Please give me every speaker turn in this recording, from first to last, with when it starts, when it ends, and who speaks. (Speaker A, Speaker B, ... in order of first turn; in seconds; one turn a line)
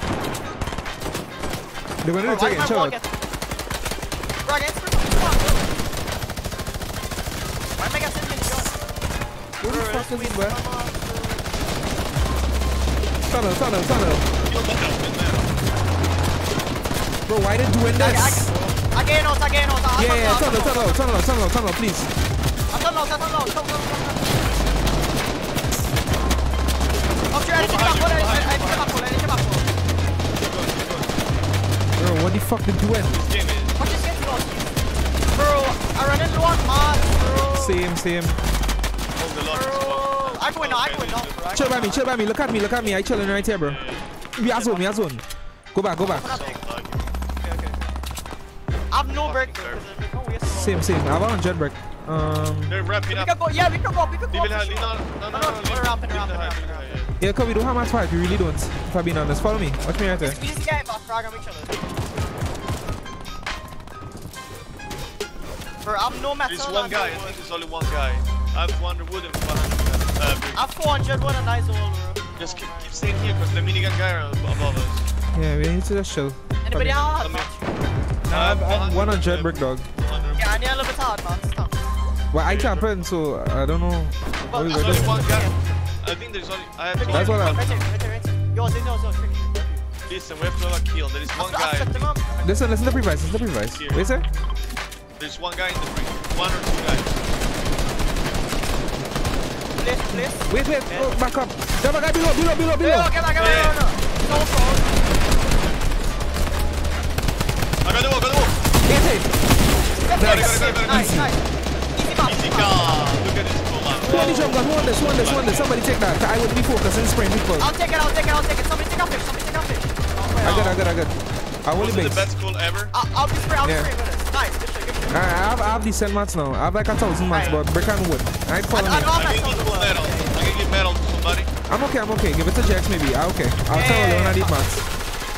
Speaker A: 2.0-3.0
Speaker B: 2.2-3.1
Speaker B: 4.4-5.7
Speaker B: 7.8-8.8
Speaker A: 9.6-10.6
Speaker B: 9.7-11.5
Speaker A: 13.2-14.3
Speaker C: 14.4-15.5
Speaker A: 17.3-18.5
Speaker B: 17.9-21.1
Speaker C: 18.5-18.8
Speaker A: 20.0-22.1
Speaker B: 22.7-24.4
Speaker B: 27.3-29.7
Speaker C: 27.5-29.0
Speaker C: 30.3-31.2
Speaker A: 32.0-33.2
Speaker C: 33.0-34.2
Speaker B: 33.8-34.7
Speaker B: 35.3-37.8
Speaker A: 37.5-38.4
Speaker C: 39.2-41.7
Speaker B: 39.5-42.1
Speaker A: 41.5-43.8
Speaker C: 43.6-44.9
Speaker A: 44.4-45.2
Speaker A: 45.7-46.4
Speaker B: 46.0-46.6
Speaker C: 46.1-47.1
Speaker B: 47.4-47.8
Speaker B: 48.9-50.8
Speaker C: 49.1-49.8
Speaker A: 50.5-52.7
Speaker C: 52.7-53.3
Speaker B: 53.1-57.0
Speaker C: 54.3-57.1
Speaker A: 57.2-60.4
Speaker B: 60.2-61.8
Speaker B: 65.8-67.4
Speaker C: 66.5-70.6
Speaker B: 70.5-73.1
Speaker C: 72.4-75.1
Speaker A: 75.3-77.1
Speaker B: 76.6-77.7
Speaker C: 77.2-77.5
Speaker A: 78.3-79.9
Speaker C: 78.3-80.7
Speaker B: 80.4-81.8
Speaker A: 82.3-85.2
Speaker C: 82.4-82.9
Speaker B: 84.5-85.6
Speaker C: 84.5-85.5
Speaker C: 86.0-87.8
Speaker B: 87.0-89.8
Speaker A: 87.1-87.6
Speaker C: 90.1-92.1
Speaker B: 91.3-92.9
Speaker A: 92.4-94.2
Speaker C: 93.7-94.1
Speaker C: 95.2-97.2
Speaker B: 99.8-101.1
Speaker A: 100.1-103.1
Speaker B: 102.8-105.0
Speaker C: 103.4-103.8
Speaker C: 107.8-108.5
Speaker A: 108.9-109.3
Speaker B: 109.7-113.1
Speaker C: 110.1-111.2
Speaker A: 110.1-111.3
Speaker C: 112.2-115.8
Speaker B: 114.0-114.6
Speaker A: 114.1-117.7
Speaker B: 117.6-120.8
Speaker A: 120.4-122.3
Speaker C: 121.8-122.9
Speaker B: 122.9-125.3
Speaker A: 123.6-123.9
Speaker A: 125.1-129.1
Speaker B: 127.3-127.6
Speaker C: 127.3-127.6
Speaker B: 128.7-130.6
Speaker C: 129.1-131.5
Speaker A: 131.7-134.9
Speaker B: 133.7-134.7